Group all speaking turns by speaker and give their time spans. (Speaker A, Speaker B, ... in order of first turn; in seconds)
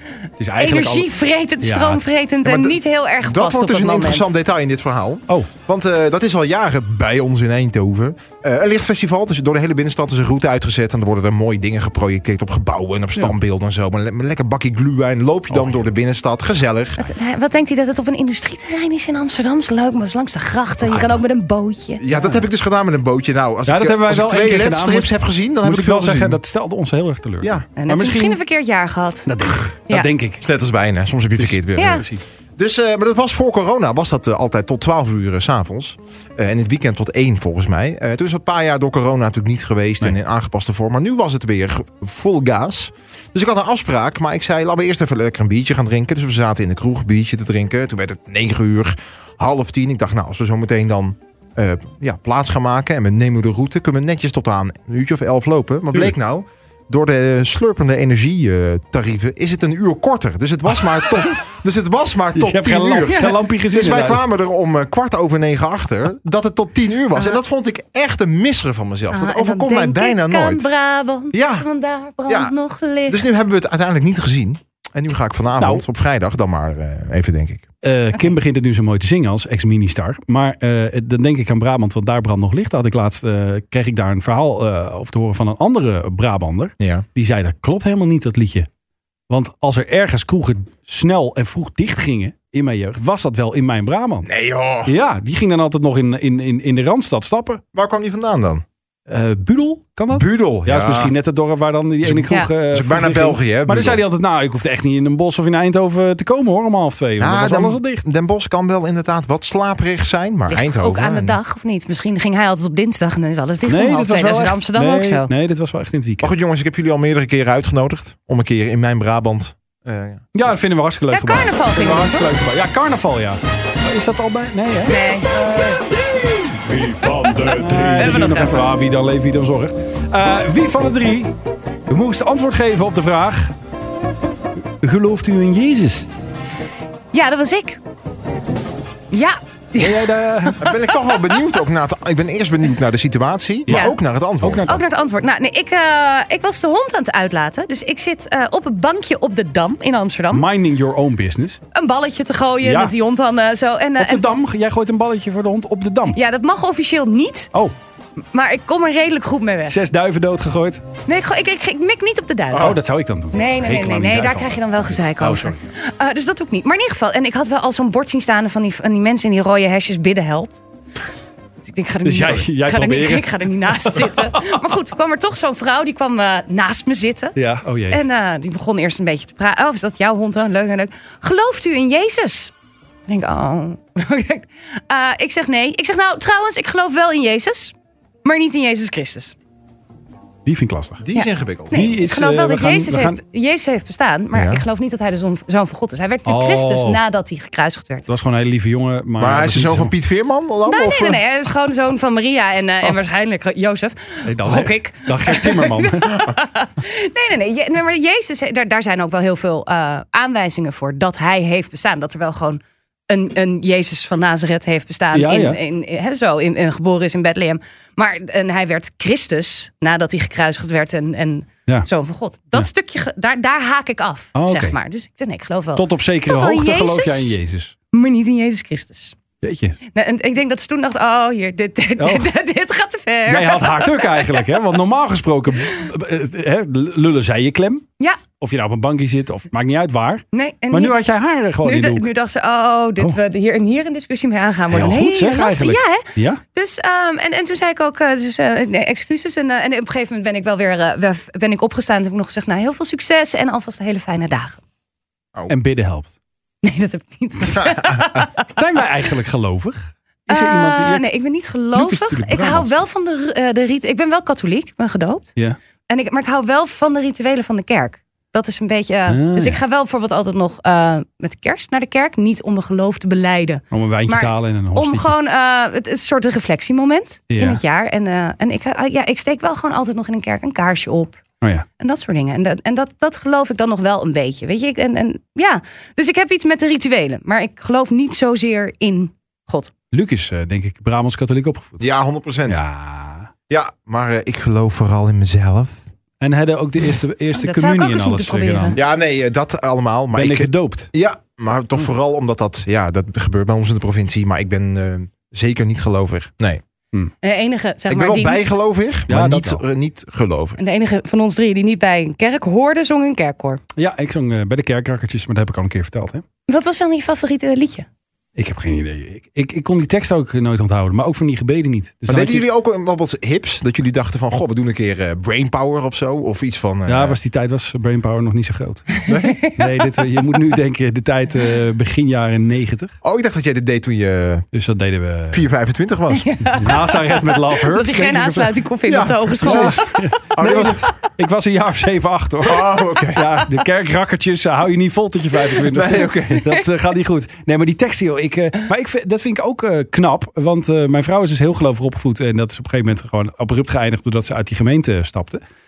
Speaker A: 0.4-1.1, 1.6-2.0, 15.5-15.8, 22.1-22.5, 23.7-28.4, 29.3-30.5, 31.4-32.2, 62.4-64.3, 75.6-75.8, 77.8-88.7, 89.3-94.3, 94.9-97.6, 99.1-108.0, 113.7-116.3, 120.3-131.3, 131.9-133.5, 134.8-136.1, 139.8-140.8, 143.7-144.9, 150.3-151.6, 152.6-152.9, 154.0-156.2, 159.7-160.8, 162.5-165.6, 172.0-174.6, 177.4-178.0, 190.5-191.0, 191.7-193.2, 196.3-197.0, 198.1-199.9, 204.2-206.3, 215.1-215.6, 224.3-224.8, 225.8-227.8, 229.4-229.8, 232.0-232.3, 233.3-237.8, 238.4-242.1, 244.7-246.4, 255.5-256.1, 258.5-261.1, 261.7-262.8, 269.1-269.6, 273.7-275.1, 277.3-277.6, 289.9-291.9, 292.5-293.3, 296.2-298.8, 300.1-300.9, 309.1-309.6, 313.8-316.2, 318.4-322.4, 326.9-332.9, 334.5-335.5, 336.5-338.6, 339.4-355.4
Speaker B: 0.6-4.3, 17.0-22.1, 27.8-29.3, 31.8-32.0, 69.1-73.3, 110.5-115.3, 121.1-122.3, 124.9-125.3, 127.2-128.7, 137.1-137.8, 139.1-140.1, 143.7-144.0, 144.7-150.5, 151.7-154.2, 156.1-157.5, 158.3-159.8, 161.1-162.8, 163.3-170.6, 171.6-177.4, 177.9-182.5, 183.1-189.4, 191.2-198.1, 200.7-227.4, 227.9-229.2, 229.9-234.5, 240.3-241.0, 241.6-254.6, 256.6-258.5, 260.3-265.3, 265.9-281.2, 281.8-289.7, 297.3-298.8, 307.2-308.4, 310.6-313.6, 316.5-317.9, 329.1-329.6, 336.1-340.0
Speaker C: 2.4-17.1, 22.0-26.4, 30.4-32.0, 32.6-70.7, 71.3-71.7, 72.3-72.5, 73.1-77.6, 86.8-87.0, 94.2-94.9, 97.8-98.6, 100.1-101.1, 102.0-104.0, 107.2-111.4, 116.2-120.2, 140.6-144.7, 191.0-191.8, 194.3-194.6, 199.2-201.2, 257.6-257.9, 291.8-292.6, 293.5-295.8, 298.8-306.6, 307.9-310.6, 322.1-327.2, 329.1-329.5, 333.0-334.5, 335.3-336.3, 338.9-339.8, 340.3-340.9, 342.4-343.3, 345.7-346.4